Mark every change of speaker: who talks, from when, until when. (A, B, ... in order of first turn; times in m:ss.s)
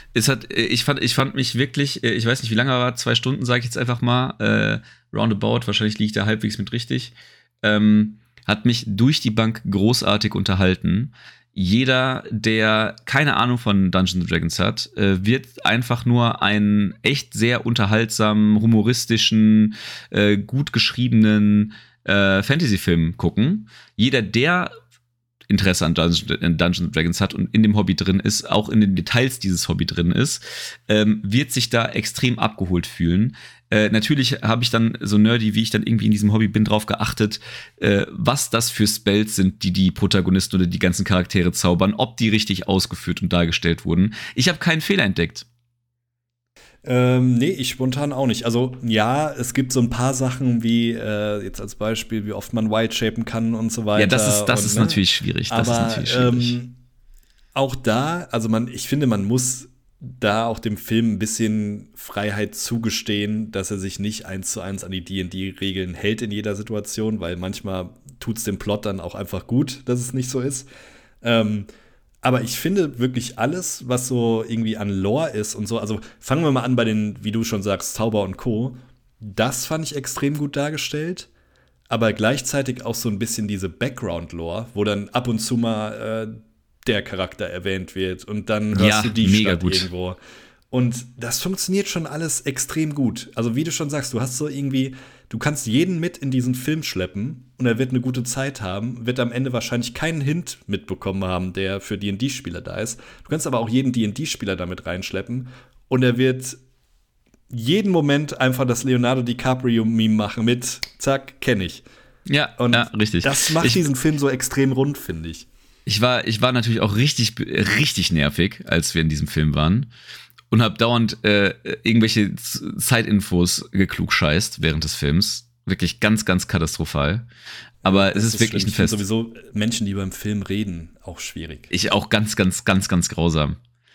0:00.1-0:24.7 A
0:25.5-0:45.4 A
0:46.8-0:56.8 B
0:54.0-0:56.6 A
0:57.5-1:10.7 B
1:11.2-1:11.7 B
1:12.2-1:21.3 B
1:21.9-1:30.2 B
1:28.7-1:29.9 A
1:30.7-1:46.6 B
1:47.5-1:51.8 B
1:52.2-1:53.8 A
1:52.6-1:55.5 B
1:55.8-1:59.9 A
2:00.5-2:07.2 A
2:07.8-2:11.7 B
2:07.8-2:09.0 A
2:11.7-2:13.6 A